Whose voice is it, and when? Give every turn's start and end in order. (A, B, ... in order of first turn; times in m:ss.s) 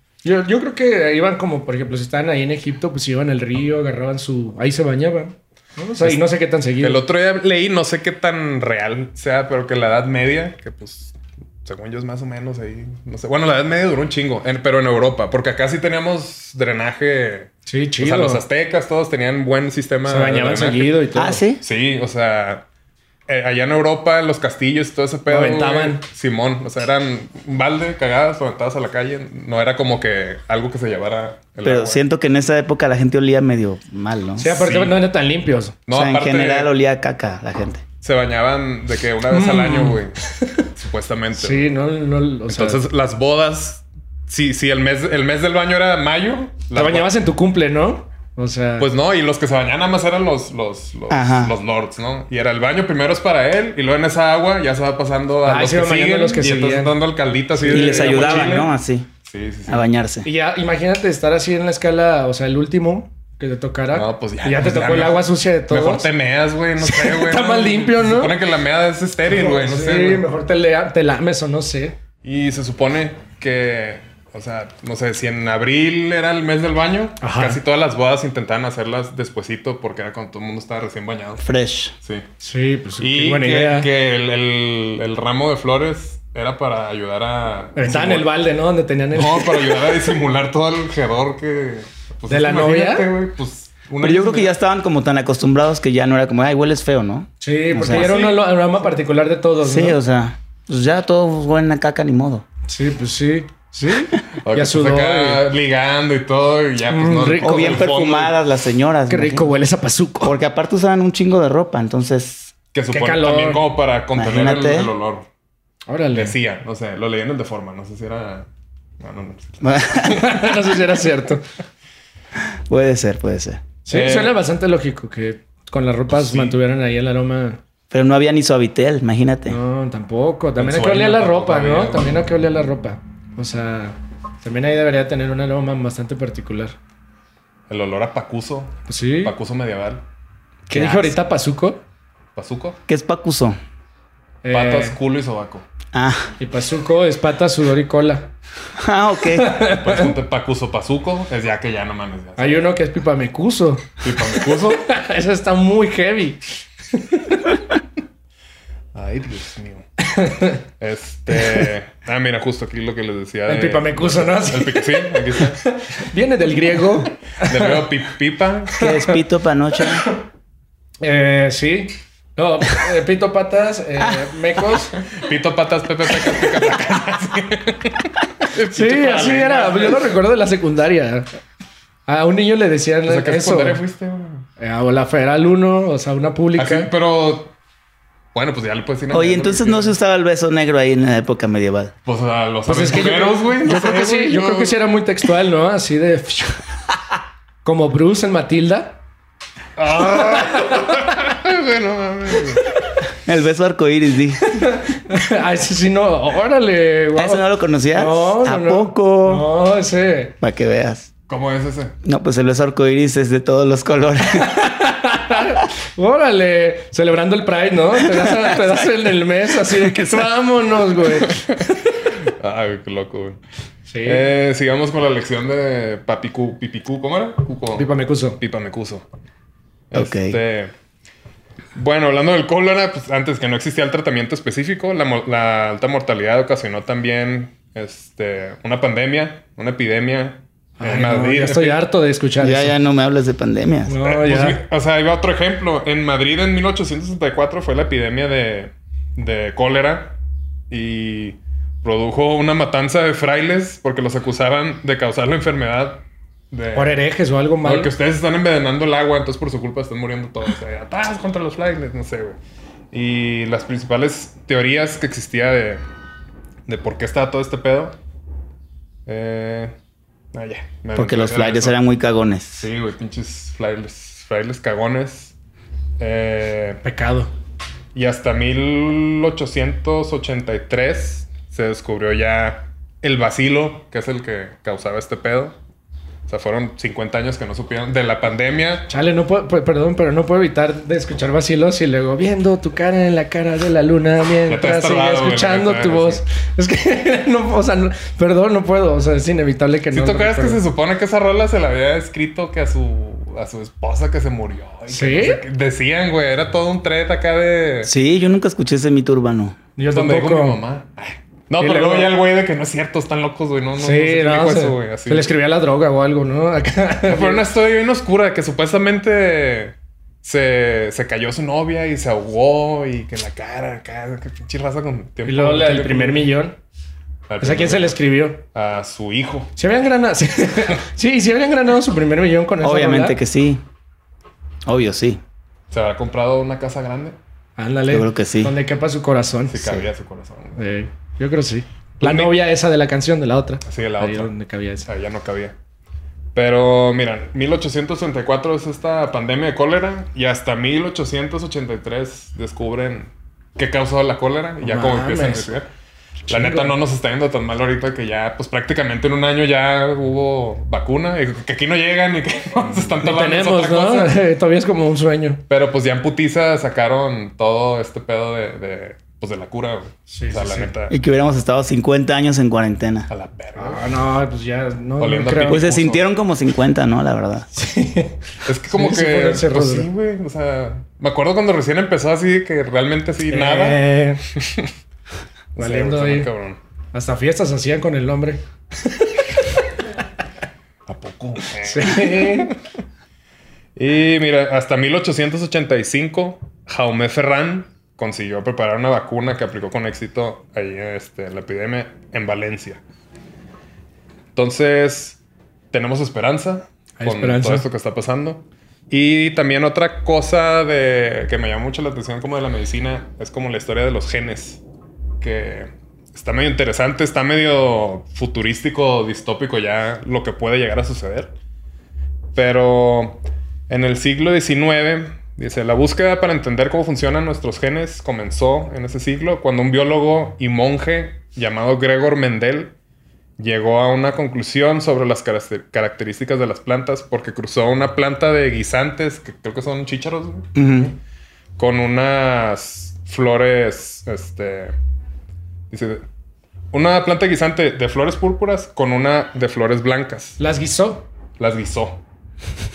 0:00.2-0:07.0 A
0:06.8-0:21.0 B
0:17.7-0:18.4 A
0:20.0-0:21.4 A
0:21.1-0:21.6 C
0:21.6-0:22.6 B
0:23.3-0:32.0 B
0:25.3-0:26.0 A
0:31.6-0:34.5 C
0:34.4-0:35.8 A
0:34.4-0:35.0 B
0:35.9-0:36.7 B
0:35.9-0:37.8 C
0:38.0-0:40.2 B
0:39.3-0:40.6 A
0:40.7-0:41.7 B
0:41.4-0:42.8 A
0:42.5-0:47.1 B
0:46.7-0:48.9 A
0:48.8-0:58.7 B
0:51.1-0:51.5 C
0:55.4-0:56.9 A
0:57.6-0:58.6 A
0:57.7-0:59.1 C
0:59.2-0:59.8 B
0:59.7-1:00.3 C
1:00.2-1:06.1 A
1:03.9-1:10.2 B
1:06.8-1:08.3 A
1:09.3-1:12.0 A
1:12.2-1:21.4 B
1:17.2-1:17.6 A
1:21.4-1:21.9 C
1:22.4-1:23.9 A
1:23.0-1:28.3 B
1:27.8-1:29.8 A
1:29.1-1:34.5 B
1:32.3-1:33.1 A
1:34.0-1:38.1 C
1:37.4-1:40.0 A
1:37.8-1:38.4 B
1:39.6-1:42.4 C
1:42.7-1:45.4 A
1:44.4-1:48.4 B
1:46.9-1:47.8 A
1:47.4-1:49.5 C
1:49.1-1:50.4 A
1:50.2-1:52.5 C
1:52.7-1:55.3 B
1:52.9-1:53.6 A
1:54.2-1:54.9 C
1:55.9-1:56.3 A
1:56.1-1:58.5 B
1:59.0-2:00.1 B
1:59.6-2:00.2 C
2:00.0-2:01.4 A
2:02.4-2:03.6 C
2:03.8-2:07.6 A
2:03.9-2:04.3 B
2:06.1-2:06.6 B
2:07.9-2:09.6 C
2:09.5-2:16.8 A
2:10.6-2:12.2 B
2:17.7-2:20.0 B
2:18.9-2:19.3 A
2:20.7-2:21.1 C
2:20.7-2:21.8 A
2:22.4-2:22.8 B
2:22.9-2:23.6 C
2:24.4-2:25.0 A
2:24.5-2:25.6 B
2:25.9-2:26.3 C
2:26.4-2:28.3 A
2:28.8-2:29.5 C
2:29.4-2:30.1 A
2:29.6-2:32.6 B
2:32.4-2:36.4 A
2:34.0-2:34.8 B
2:36.9-2:37.3 A
2:38.9-2:39.8 B
2:40.1-2:40.6 A
2:40.8-2:45.7 B
2:43.5-2:47.8 A
2:47.4-2:48.8 B
2:48.8-2:50.0 C
2:51.0-2:55.0 A
2:55.1-3:00.1 B
2:58.7-3:01.3 A
3:02.1-3:03.8 A
3:03.0-3:04.4 B
3:04.6-3:06.9 A
3:06.6-3:07.5 B
3:08.3-3:09.9 B
3:09.1-3:11.9 C
3:12.0-3:14.8 B
3:12.7-3:16.6 A
3:17.6-3:19.0 A
3:19.8-3:22.6 B
3:20.2-3:21.1 A
3:23.2-3:24.4 C
3:24.5-3:30.3 A
3:27.2-3:29.5 C
3:30.4-3:31.1 C
3:31.3-3:31.9 B
3:32.0-3:34.6 C
3:34.4-3:41.9 A
3:42.2-3:43.4 B
3:43.9-3:44.2 A
3:44.0-3:49.0 B
3:47.8-3:48.4 A
3:49.9-3:50.7 B
3:49.9-3:50.4 C
3:51.7-4:01.8 B
4:00.8-4:02.7 A
4:02.4-4:03.9 C
4:03.9-4:04.6 A
4:04.0-4:10.2 B
4:10.7-4:17.0 B
4:16.7-4:17.9 A
4:17.6-4:22.4 B
4:22.9-4:25.8 B
4:26.7-4:28.0 B
4:29.0-4:29.7 B
4:30.3-4:31.8 B
4:31.0-4:32.7 C
4:32.6-4:35.3 B
4:36.0-4:36.8 B
4:36.8-4:37.3 A
4:37.9-4:45.6 B
4:46.3-4:48.8 B
4:48.9-5:00.6 A
4:54.5-4:56.2 B
4:59.9-5:07.9 B
5:04.9-5:05.4 A
5:07.8-5:09.6 C
5:09.8-5:10.6 A
5:09.9-5:15.3 B
5:11.6-5:12.1 A
5:13.8-5:17.4 A
5:17.1-5:26.2 B
5:25.2-5:26.6 A
5:27.3-5:28.0 B
5:27.4-5:28.4 A
5:28.5-5:29.5 B
5:29.6-5:33.2 A
5:32.6-5:33.6 C
5:34.6-5:35.2 C
5:35.7-5:37.2 B
5:37.6-5:39.7 A
5:37.9-5:38.5 C
5:39.5-5:40.6 B
5:40.6-5:44.9 A
5:42.0-5:42.3 B
5:43.6-5:44.3 B
5:44.8-5:45.5 B
5:46.3-5:55.7 B
5:54.6-5:55.5 A
5:56.3-5:56.7 A
5:56.3-6:04.2 B
6:03.0-6:05.4 A
6:05.5-6:10.9 B
6:10.1-6:10.7 A
6:10.9-6:13.1 C
6:13.1-6:13.9 B
6:13.6-6:15.7 A
6:15.0-6:16.0 B
6:15.5-6:17.5 C
6:17.5-6:18.2 A
6:18.4-6:23.8 B
6:18.7-6:19.9 A
6:23.2-6:24.2 A
6:24.3-6:24.7 B
6:25.6-6:26.6 B
6:25.6-6:26.3 A
6:26.9-6:29.3 A
6:30.9-6:32.6 B
6:31.6-6:32.5 A
6:33.8-6:42.8 B
6:44.3-6:45.2 B
6:45.7-6:54.6 B
6:47.0-6:47.6 A
6:55.2-7:01.3 B
7:02.3-7:12.7 B
7:13.4-7:20.9 B
7:20.5-7:20.9 C
7:21.6-7:24.7 B
7:25.7-7:26.0 B
7:26.7-7:30.4 B
7:30.4-7:31.1 A
7:31.4-7:32.0 B